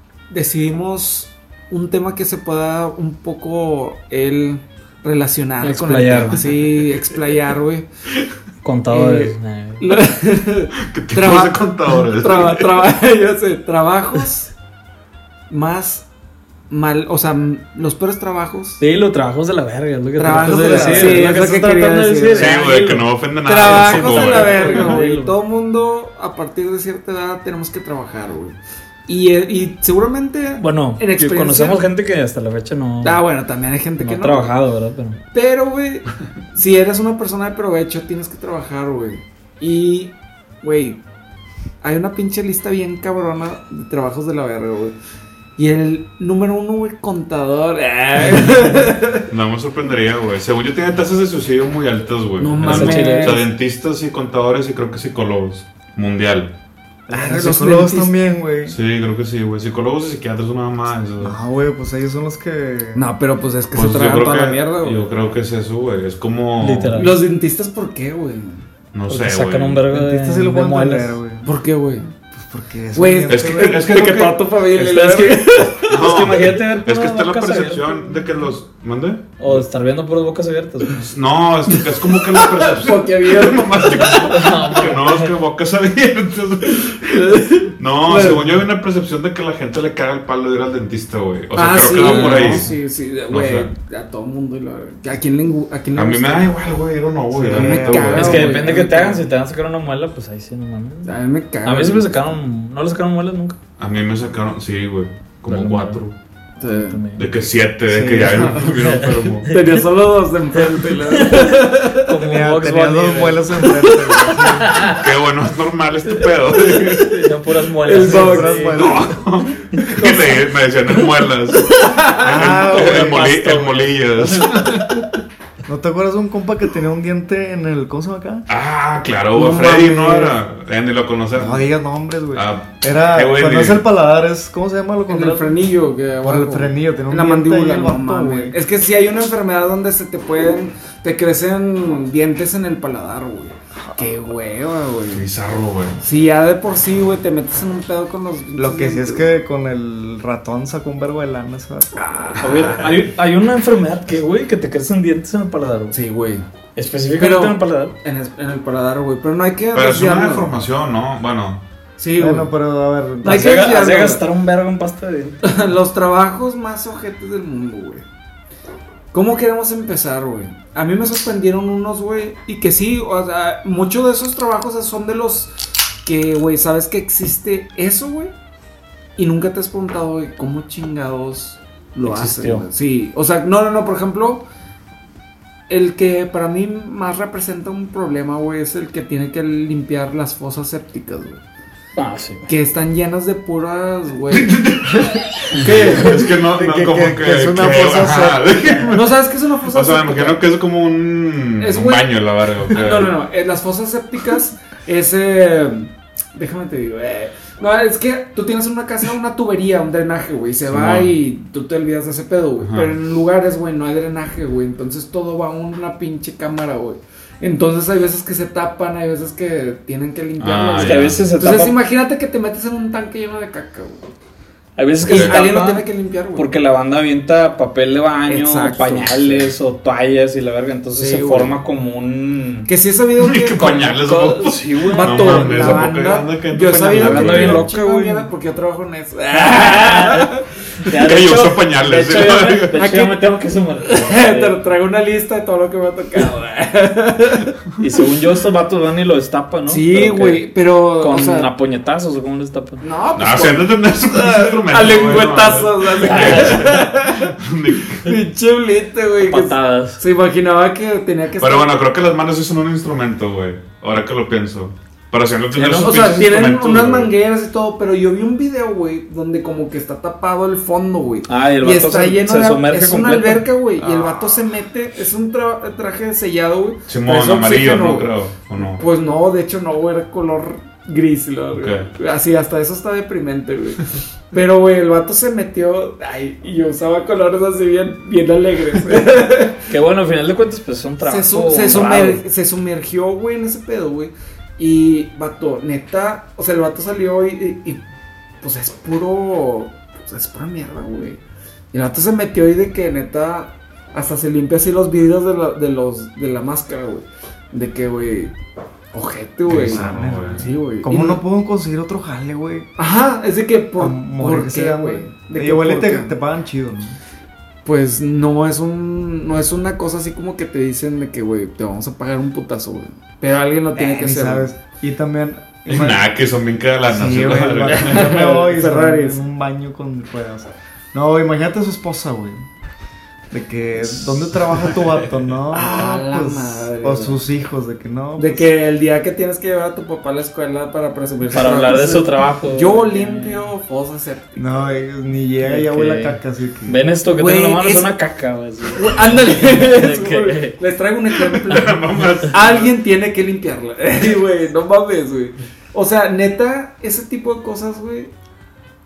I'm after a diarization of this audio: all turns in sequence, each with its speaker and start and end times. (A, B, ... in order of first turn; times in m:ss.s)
0:00.3-0:07.9 A
0:05.6-0:06.9 B
0:08.6-0:10.0 B
0:08.9-0:14.5 A
0:10.8-0:12.9 C
0:15.5-0:16.1 A
0:16.7-0:18.8 A
0:18.8-0:25.4 B
0:20.2-0:22.6 A
0:20.3-0:21.3 D
0:22.3-0:25.0 C
0:23.4-0:31.9 A
0:30.6-0:33.2 B
0:33.0-0:34.5 A
0:34.0-0:35.2 B
0:35.3-0:41.0 A
0:41.8-0:44.9 A
0:45.6-0:49.3 A
0:49.3-0:56.5 C
0:52.4-0:53.5 A
0:52.6-0:53.4 B
0:57.1-0:58.8 D
0:57.1-0:58.1 A
0:58.7-1:01.4 C
1:01.2-1:03.0 D
1:02.9-1:05.2 A
1:03.7-1:07.1 C
1:06.6-1:07.2 B
1:06.9-1:08.6 A
1:08.9-1:09.9 C
1:09.1-1:11.2 B
1:09.9-1:11.5 D
1:11.4-1:12.1 A
1:12.3-1:13.8 D
1:12.9-1:16.0 A
1:13.3-1:14.4 C
1:14.7-1:18.1 B
1:15.8-1:19.6 C
1:19.4-1:21.1 B
1:21.0-1:32.7 C
1:22.4-1:24.4 A
1:24.0-1:25.3 B
1:27.2-1:28.6 A
1:31.5-1:36.6 A
1:31.9-1:32.7 B
1:33.3-1:33.7 C
1:35.9-1:38.6 C
1:37.4-1:39.2 A
1:37.5-1:38.2 D
1:38.0-1:43.6 B
1:41.0-1:42.1 A
1:43.8-1:46.1 C
1:45.5-1:46.0 B
1:46.6-1:47.0 A
1:46.6-1:47.3 B
1:47.1-1:49.5 C
1:47.9-1:48.6 D
1:48.6-1:49.8 B
1:49.5-1:52.1 A
1:50.5-1:53.9 B
1:52.2-1:54.9 D
1:54.6-1:55.0 B
1:54.9-1:57.1 C
1:56.6-1:58.9 B
1:57.8-1:58.9 A
1:58.0-1:59.2 D
1:58.7-2:01.7 C
1:59.9-2:00.5 A
2:01.7-2:02.3 A
2:02.2-2:03.3 D
2:02.3-2:04.9 C
2:02.4-2:04.7 B
2:05.6-2:08.5 D
2:08.5-2:11.6 C
2:09.3-2:10.4 A
2:11.4-2:15.6 D
2:12.3-2:13.8 C
2:15.1-2:25.3 A
2:16.2-2:18.6 D
2:25.1-2:26.0 C
2:26.0-2:29.2 A
2:28.5-2:32.0 D
2:32.0-2:32.9 A
2:32.4-2:36.0 B
2:35.9-2:36.5 A
2:36.8-2:37.9 B
2:37.2-2:40.5 A
2:39.7-2:41.6 C
2:42.0-2:42.5 A
2:42.2-2:43.6 D
2:43.2-2:44.2 A
2:43.2-2:45.6 B
2:45.4-2:48.0 A
2:49.1-2:55.5 A
2:56.0-2:58.3 A
2:59.2-3:04.4 A
3:02.0-3:02.6 B
3:05.7-3:11.4 A
3:12.0-3:12.5 B
3:12.5-3:15.0 A
3:14.3-3:23.1 C
3:15.5-3:16.3 A
3:16.4-3:18.6 D
3:18.9-3:20.4 A
3:21.6-3:22.1 A
3:22.7-3:44.1 A
3:30.6-3:31.2 C
3:32.6-3:32.9 C
3:40.4-3:41.3 C
3:40.8-3:41.8 B
3:44.8-3:52.7 B
3:45.0-3:45.4 C
3:45.0-3:46.5 A
3:48.3-3:49.5 A
3:51.0-3:51.6 A
3:52.7-3:54.0 A
3:53.2-3:57.7 C
3:53.6-3:55.9 B
3:54.9-4:00.4 A
3:56.8-3:58.3 B
3:59.3-4:00.3 B
4:00.8-4:04.6 B
4:01.0-4:02.8 C
4:02.8-4:03.2 A
4:03.9-4:07.5 A
4:07.8-4:12.8 B
4:09.7-4:11.5 A
4:12.8-4:17.3 A
4:13.1-4:18.1 C
4:16.0-4:16.8 B
4:17.9-4:21.8 A
4:19.3-4:20.0 B
4:21.4-4:27.1 C
4:25.5-4:26.2 B
4:25.7-4:49.6 A
4:31.3-4:33.5 B
4:33.8-4:34.4 D
4:36.9-4:38.8 C
4:41.5-4:41.9 C
4:49.7-4:52.2 B
4:51.0-4:57.8 A
4:58.4-5:01.2 A
5:01.7-5:08.4 A
5:08.9-5:11.2 A
5:09.5-5:12.7 D
5:09.5-5:10.5 C
5:12.8-5:16.2 A
5:13.8-5:17.0 D
5:17.6-5:24.5 A
5:23.7-5:26.1 D
5:25.7-5:28.2 C
5:26.9-5:32.5 D
5:27.7-5:29.2 A
5:33.3-5:38.5 D
5:35.5-5:37.2 A
5:38.2-5:44.6 A
5:41.3-5:43.5 B
5:44.4-5:46.8 D
5:45.4-5:50.6 B
5:47.2-5:48.0 A
5:48.7-5:58.1 A
5:51.3-5:52.7 C